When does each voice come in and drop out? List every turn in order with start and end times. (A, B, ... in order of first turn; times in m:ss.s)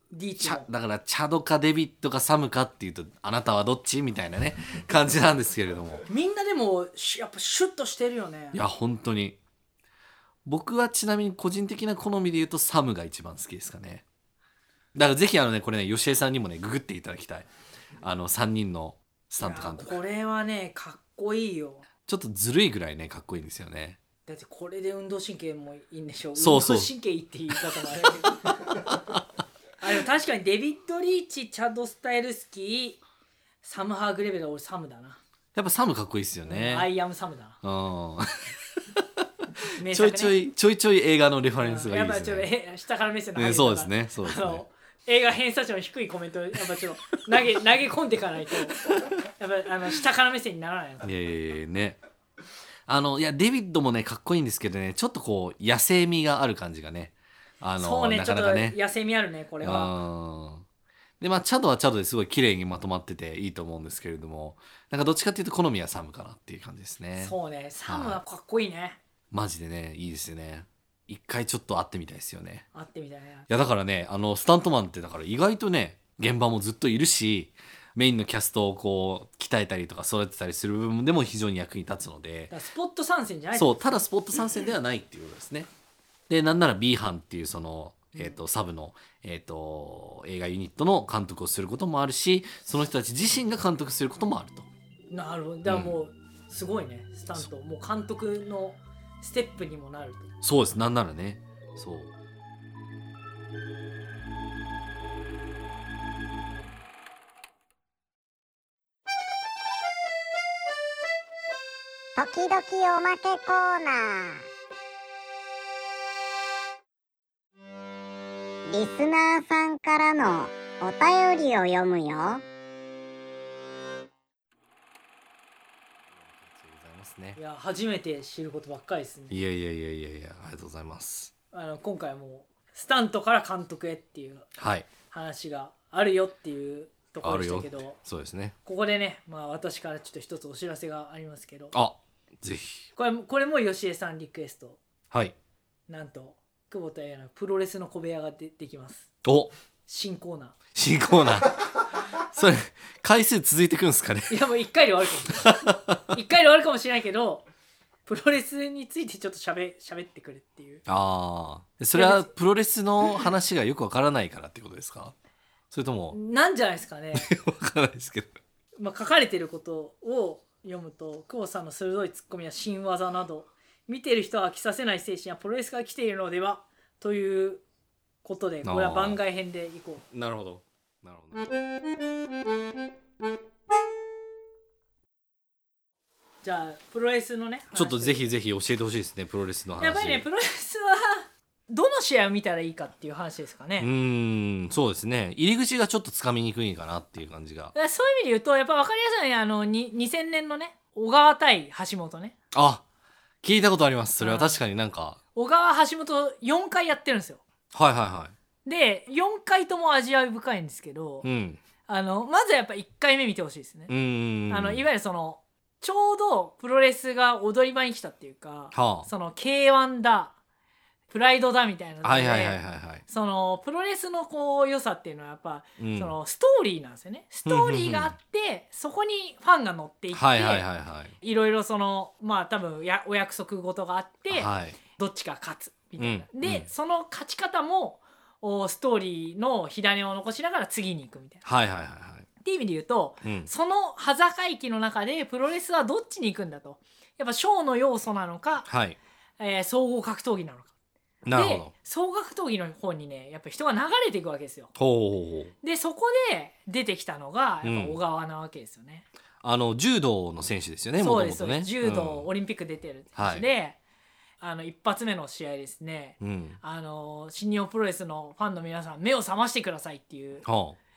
0:00.1-0:00.7 A
0:00.4-0:06.1 B
0:06.1-0:08.6 A
0:08.5-0:09.4 B
0:10.4-0:14.0 B
0:14.9-0:17.5 B
0:18.0-0:20.0 B
0:19.4-0:21.9 A
0:22.1-0:24.0 B
0:24.3-0:28.7 A
0:26.4-0:26.9 B
0:28.9-0:29.2 B
0:29.8-0:33.0 A
0:33.6-0:35.2 A
0:35.6-0:36.9 B
0:36.5-0:37.6 A
0:37.6-0:42.5 B
0:39.8-0:40.4 A
0:41.6-0:51.1 A
0:43.4-0:44.6 B
0:51.0-0:52.0 B
0:52.9-0:58.8 B
0:57.8-1:00.0 A
0:59.6-1:00.6 B
1:01.2-1:07.4 B
1:07.2-1:09.0 A
1:07.9-1:08.2 B
1:09.3-1:12.7 B
1:12.7-1:13.5 A
1:13.5-1:22.5 B
1:22.5-1:23.8 A
1:23.5-1:25.7 B
1:26.3-1:34.7 B
1:35.1-1:40.3 A
1:35.6-1:36.0 B
1:40.4-1:42.1 B
1:52.2-1:54.4 C
1:58.7-2:02.4 C
2:06.1-2:07.4 B
2:07.4-2:09.4 A
2:09.3-2:11.3 B
2:11.5-2:14.5 A
2:14.6-2:14.9 B
2:15.1-2:18.0 A
2:17.2-2:18.6 B
2:18.6-2:21.7 A
2:21.7-2:22.9 B
2:23.0-2:24.8 A
2:25.9-2:29.1 A
2:29.2-2:29.5 B
2:29.9-2:30.6 A
2:30.8-2:34.4 B
2:34.3-2:35.6 A
2:35.3-2:36.1 B
2:36.1-2:37.4 A
2:38.1-2:40.8 A
2:40.9-2:45.2 B
2:41.9-2:42.3 A
2:45.7-2:46.2 B
2:46.1-2:47.3 A
2:47.1-2:48.4 B
2:48.8-2:57.6 A
2:58.2-3:00.0 A
2:58.6-2:59.2 B
3:00.1-3:01.5 B
3:06.4-3:08.2 A
3:07.7-3:10.2 B
3:09.8-3:13.9 A
3:13.8-3:17.7 B
3:17.8-3:22.4 A
3:22.5-3:22.8 B
3:23.4-3:25.2 B
3:24.2-3:24.6 A
3:25.4-3:27.4 A
3:27.7-3:28.3 B
3:28.6-3:31.3 A
3:31.2-3:31.6 B
3:31.9-3:33.9 A
3:33.9-3:34.8 B
3:34.5-3:40.4 A
3:38.7-3:39.1 B
3:41.1-3:50.6 A
3:42.0-3:43.0 B
3:45.8-3:46.2 B
3:47.5-3:48.2 B
3:50.1-3:51.2 B
3:51.2-4:01.4 A
3:54.3-3:54.8 B
3:56.0-3:56.7 B
4:01.4-4:02.3 B
4:02.4-4:08.7 A
4:03.2-4:03.5 B
4:08.7-4:09.0 B
4:09.4-4:10.7 A
4:11.2-4:11.7 B
4:11.3-4:14.7 A
4:14.8-4:15.5 B
4:15.6-4:19.1 A
4:17.6-4:18.0 B
4:19.4-4:22.3 B
4:21.0-4:23.8 A
4:23.2-4:23.5 B
4:24.4-4:30.5 A
4:26.2-4:26.6 B
4:30.4-4:30.8 B